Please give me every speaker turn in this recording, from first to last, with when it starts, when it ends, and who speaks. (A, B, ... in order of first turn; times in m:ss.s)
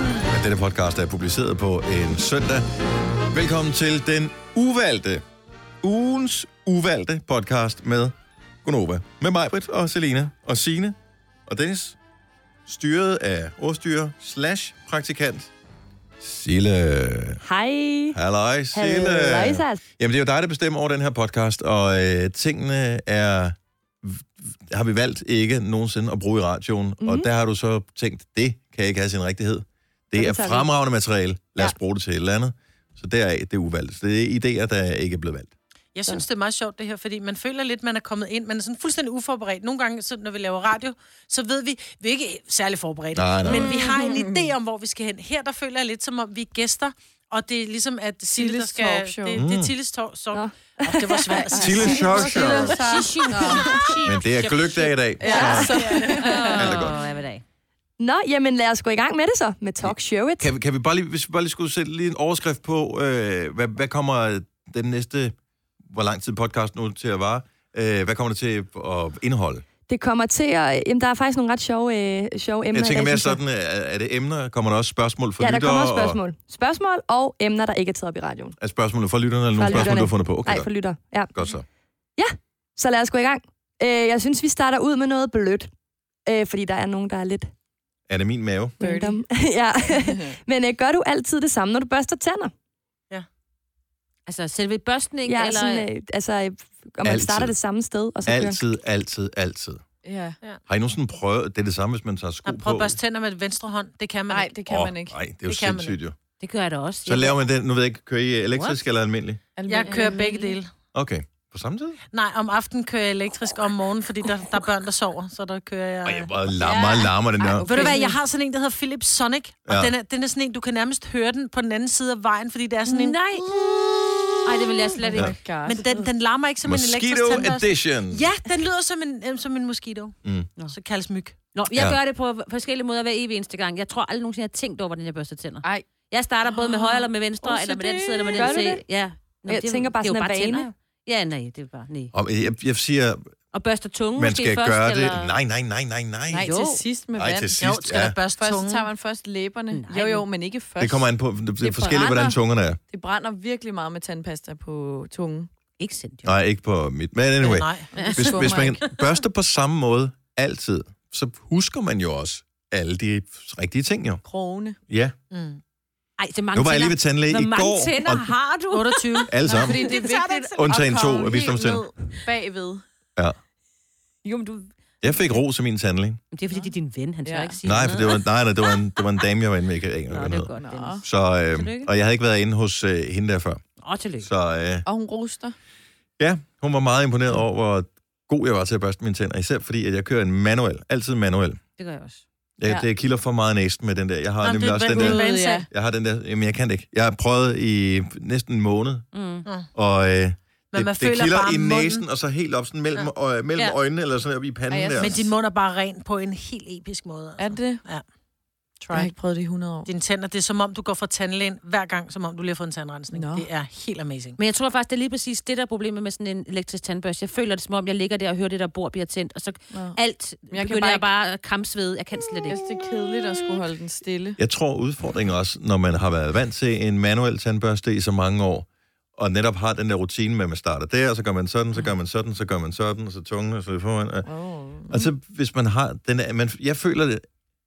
0:00.2-0:02.6 A
0:03.3-0:05.2 A
0:05.8-0:12.0 A
0:12.6-0:15.5 A
0:16.2-0:17.4 A
0:17.4-0:18.2 B
0:18.1-0:35.5 A
0:18.7-0:19.8 B
0:27.0-0:27.3 B
0:30.1-0:30.7 B
0:35.9-0:56.6 C
0:43.1-0:43.7 A
0:43.4-0:44.5 D
0:48.3-0:49.4 D
0:49.4-0:49.7 A
0:50.3-0:51.5 B
0:51.6-0:52.8 A
0:51.6-0:53.7 D
0:52.4-0:53.9 E
0:54.0-0:56.0 A
0:55.2-0:56.7 D
0:56.2-0:57.4 E
0:56.6-0:57.0 A
0:58.0-1:00.5 B
0:59.8-1:05.4 A
1:05.9-1:09.6 A
1:09.9-1:13.4 B
1:12.7-1:16.2 A
1:15.4-1:18.6 B
1:18.6-1:20.7 A
1:19.6-1:21.3 B
1:21.3-1:21.6 A
1:22.2-1:25.7 B
1:26.3-1:27.5 B
1:28.1-1:28.8 A
1:28.8-1:32.5 B
1:28.8-1:29.2 D
1:30.0-1:30.3 D
1:34.3-1:35.8 E
1:35.3-1:38.6 B
1:37.0-1:37.5 A
1:38.2-1:39.8 A
1:40.0-1:40.4 D
1:40.7-1:43.0 A
1:42.4-1:44.5 C
1:44.3-1:45.2 D
1:44.7-1:46.2 A
1:45.4-1:46.0 C
1:46.4-1:47.4 E
1:47.0-1:49.4 A
1:48.5-1:48.8 E
1:49.6-1:50.6 D
1:49.7-1:50.7 C
1:50.9-1:52.0 A
1:52.1-1:56.3 C
1:56.0-1:57.9 A
1:56.6-1:57.1 E
1:57.4-1:58.2 D
1:57.6-2:10.2 C
1:59.7-1:59.9 A
2:02.9-2:03.5 E
2:04.4-2:05.4 E
2:05.1-2:06.0 D
2:06.6-2:08.2 A
2:10.2-2:10.5 A
2:10.7-2:11.4 C
2:11.5-2:22.1 E
2:16.5-2:17.0 D
2:17.4-2:18.8 B
2:19.5-2:20.7 B
2:22.1-2:23.3 A
2:23.5-2:25.3 E
2:24.2-2:26.5 A
2:26.3-2:27.6 D
2:26.4-2:26.8 E
2:27.2-2:28.2 A
2:27.6-2:28.9 C
2:28.4-2:31.0 D
2:29.7-2:30.2 E
2:30.8-2:32.8 A
2:31.6-2:32.4 D
2:32.9-2:35.5 D
2:35.8-2:36.3 E
2:36.2-2:44.2 A
2:37.4-2:37.9 C
2:37.9-2:38.8 D
2:38.0-2:38.6 E
2:44.2-2:44.8 D
2:44.9-2:45.1 A
2:45.3-2:45.6 C
2:46.2-2:50.6 E
2:46.5-2:48.3 A
2:48.7-2:50.3 C
2:49.3-2:49.9 A
2:49.4-2:52.8 D
2:50.6-2:51.9 A
2:55.0-2:56.2 A
2:56.3-2:58.2 E
2:57.2-2:57.6 D
2:57.6-3:00.5 A
3:00.1-3:01.9 E
3:00.6-3:01.0 D
3:01.0-3:03.6 A
3:03.8-3:04.3 E
3:04.2-3:04.8 A
3:04.8-3:05.5 D
3:06.2-3:11.6 A
3:11.8-3:12.2 E
3:12.6-3:19.1 A
3:14.4-3:15.6 C
3:15.0-3:15.7 D
3:19.1-3:19.4 E
3:19.7-3:25.2 A
3:20.7-3:22.0 C
3:24.7-3:25.2 D
3:25.0-3:28.0 C
3:27.4-3:27.8 D
3:28.8-3:29.1 C
3:28.9-3:29.9 D
3:29.8-3:34.4 C
3:33.1-3:33.5 D
3:34.4-3:42.6 E
3:39.7-3:40.0 D
3:40.5-3:41.1 D
3:42.5-3:44.4 D
3:44.4-3:54.3 A
3:54.2-3:55.1 D
3:54.9-3:57.2 A